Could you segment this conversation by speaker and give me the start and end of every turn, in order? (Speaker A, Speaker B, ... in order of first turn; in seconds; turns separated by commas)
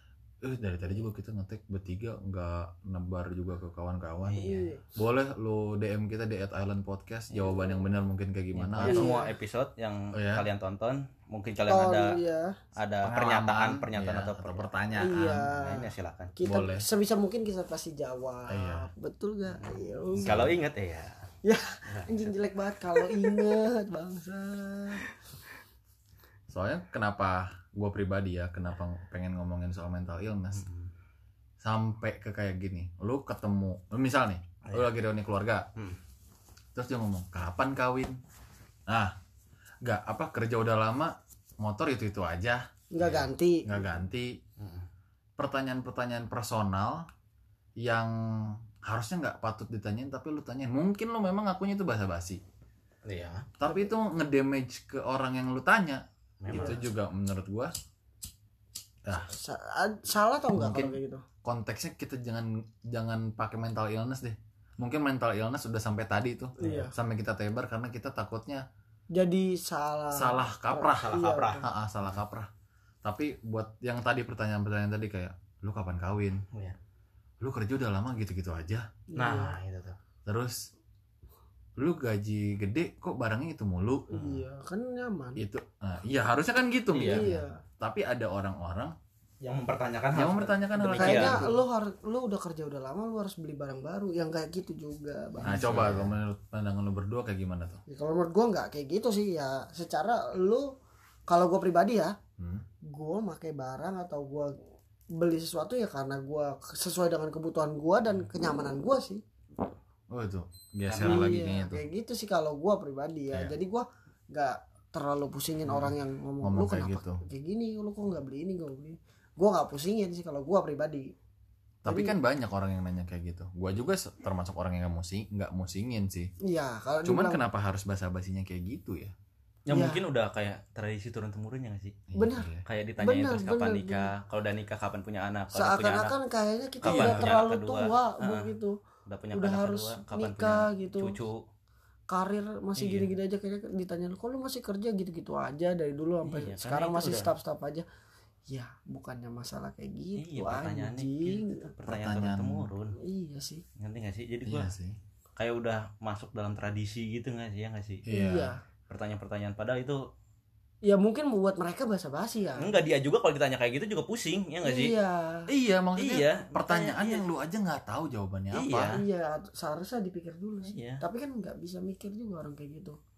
Speaker A: 0.4-9.1, Speaker B: 4.3-4.7, Speaker C: 4.3-4.9, Speaker B: 8.6-12.2, Speaker C: 8.8-9.4, Speaker A: 10.2-10.4, Speaker C: 11.7-12.6, Speaker B: 12.8-16.3, Speaker A: 13.0-15.5, Speaker C: 15.0-20.5, Speaker A: 16.4-16.9, Speaker A: 18.5-18.9, Speaker B: 19.5-21.2, Speaker A: 20.1-20.6, Speaker C: 21.4-25.1, Speaker B: 21.9-22.4, Speaker B: 23.0-23.4, Speaker A: 26.5-30.6, Speaker B: 30.5-30.9, Speaker A: 31.6-35.6, Speaker B: 34.6-34.9, Speaker A: 36.8-38.2, Speaker A: 38.9-39.1, Speaker A: 39.8-42.6, Speaker C: 42.9-43.8, Speaker A: 43.7-44.4, Speaker B: 44.6-44.9, Speaker A: 45.4-47.0, Speaker A: 47.8-52.4, Speaker B: 53.0-53.5, Speaker A: 53.6-57.7, Speaker C: 53.6-53.9, Speaker B: 56.4-56.8, Speaker A: 59.1-59.3, Speaker C: 59.3-61.2, Speaker A: 60.5-68.6, Speaker C: 66.6-66.9, Speaker C: 69.1-71.7, Speaker A: 70.1-72.5, Speaker B: 71.0-72.2, Speaker A: 73.0-76.4, Speaker A: 77.4-78.8, Speaker C: 79.1-79.6, Speaker B: 79.2-80.0, Speaker A: 80.3-80.6, Speaker A: 81.8-84.1, Speaker C: 84.1-85.4, Speaker B: 84.1-84.4, Speaker A: 85.4-88.9, Speaker B: 86.9-87.3, Speaker C: 87.0-87.6, Speaker C: 89.4-89.8, Speaker B: 89.4-91.6, Speaker A: 90.1-91.5, Speaker C: 90.9-95.9, Speaker B: 95.4-96.2, Speaker A: 95.5-97.8, Speaker C: 97.9-100.7, Speaker C: 101.3-102.1, Speaker A: 102.4-102.6, Speaker C: 102.9-104.5, Speaker C: 105.2-109.2, Speaker A: 110.1-111.9, Speaker B: 110.9-111.4, Speaker C: 111.0-121.1, Speaker A: 113.3-113.6, Speaker A: 115.7-117.2, Speaker A: 121.8-126.3, Speaker C: 121.9-122.2, Speaker C: 126.5-127.4, Speaker A: 127.0-129.1, Speaker B: 129.7-132.0, Speaker C: 129.7-130.1, Speaker A: 132.1-132.7, Speaker C: 132.2-134.1, Speaker B: 132.7-136.2, Speaker C: 135.5-138.8, Speaker B: 136.8-138.5, Speaker A: 136.8-137.4, Speaker B: 139.1-141.4, Speaker C: 139.3-141.2, Speaker C: 142.1-147.8, Speaker B: 142.8-143.1, Speaker B: 146.2-147.3, Speaker C: 148.5-151.7, Speaker B: 150.2-153.0, Speaker A: 151.9-152.7, Speaker C: 153.0-153.6, Speaker B: 153.8-154.7, Speaker A: 154.5-155.0, Speaker B: 155.4-158.0, Speaker A: 158.0-158.5, Speaker C: 158.1-158.6, Speaker B: 158.9-160.0, Speaker C: 160.8-162.8, Speaker B: 162.6-165.0, Speaker C: 164.6-165.5, Speaker A: 165.5-169.0, Speaker B: 166.0-167.2, Speaker B: 168.5-169.0, Speaker C: 168.9-173.0, Speaker B: 170.7-171.0